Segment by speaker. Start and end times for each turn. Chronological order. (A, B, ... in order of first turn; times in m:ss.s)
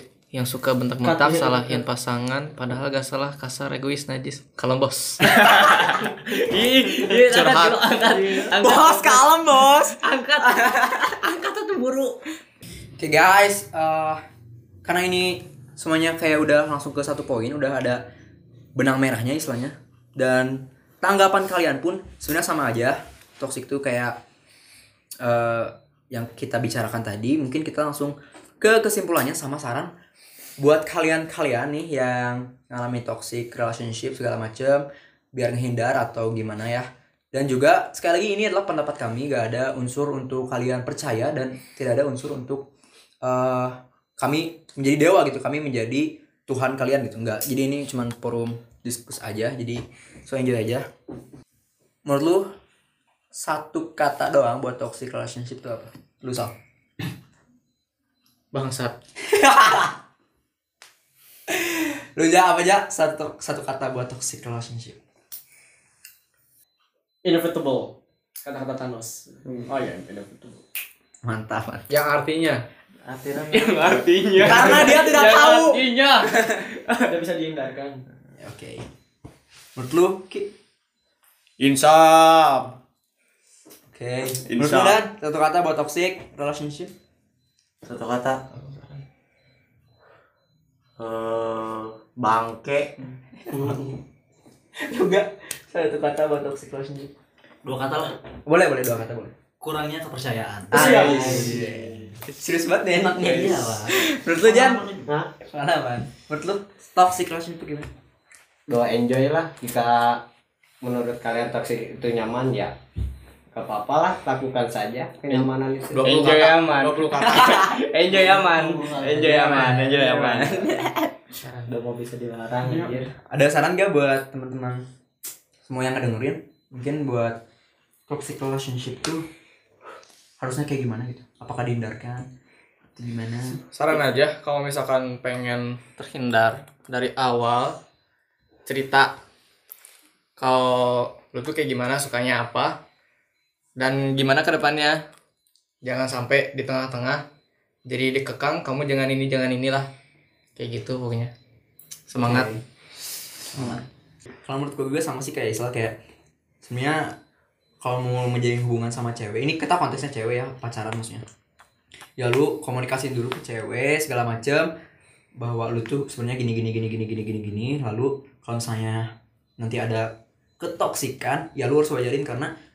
0:00.3-0:05.4 A
0:01.0-0:01.8 B
0:05.2-0:07.9 C
0:07.0-0:08.8 D
0:07.2-0:09.2 A
0:08.6-0:11.2 E
0:13.0-0:14.2 E
0:14.8-0:18.0 E
0:18.7-0:24.2 E
0:25.2-0:29.9 E
0:30.6-0:42.7 E
0:43.2-0:50.9 E
0:52.0-0:52.5 E
0:53.3-0:57.1 E
0:58.5-0:58.9 A
0:59.2-1:00.0 E
1:01.5-1:05.0 E
1:07.2-1:10.6 B
1:11.2-1:11.9 E
1:11.9-1:12.6 A
1:13.0-1:14.5 D
1:13.5-1:17.0 C
1:14.4-1:16.7 E
1:17.0-1:18.0 B
1:18.4-1:18.8 E
1:19.8-1:20.5 E
1:21.6-1:22.8 C
1:23.9-1:26.9 E
1:24.5-1:25.0 C
1:27.8-1:28.4 D
1:31.0-1:33.1 D
1:33.5-1:33.8 E
1:33.5-1:34.0 B
1:34.8-1:37.1 E
1:37.6-1:38.2 F
1:38.4-1:39.3 E
1:39.6-1:42.2 F
1:40.7-1:44.8 E
1:40.7-1:41.5 C
1:40.9-1:41.2 G
1:41.0-1:41.5 B
1:43.0-1:45.1 F
1:43.2-1:43.6 C
1:45.4-1:47.9 E
1:48.7-1:50.2 G
1:50.8-1:52.7 G
1:53.5-1:56.1 G
1:55.3-1:57.4 A
1:56.0-2:00.7 C
1:57.2-1:57.7 E
1:58.1-2:00.1 F
2:00.6-2:01.1 E
2:01.3-2:01.7 A
2:01.6-2:03.1 G
2:02.6-2:04.8 E
2:05.6-2:07.4 E
2:08.1-2:09.2 E
2:10.4-2:12.3 E
2:13.0-2:13.6 E
2:13.7-2:17.8 A
2:18.6-2:19.1 A
2:20.4-2:22.8 A
2:23.8-2:25.0 A
2:25.8-2:27.2 A
2:27.9-2:29.9 A
2:30.6-2:31.3 A
2:32.1-2:32.5 A
2:32.2-2:32.6 E
2:33.5-2:33.8 E
2:34.4-2:36.0 E
2:36.6-2:37.2 E
2:37.8-2:41.2 E
2:42.2-2:44.7 E
2:45.4-2:52.5 E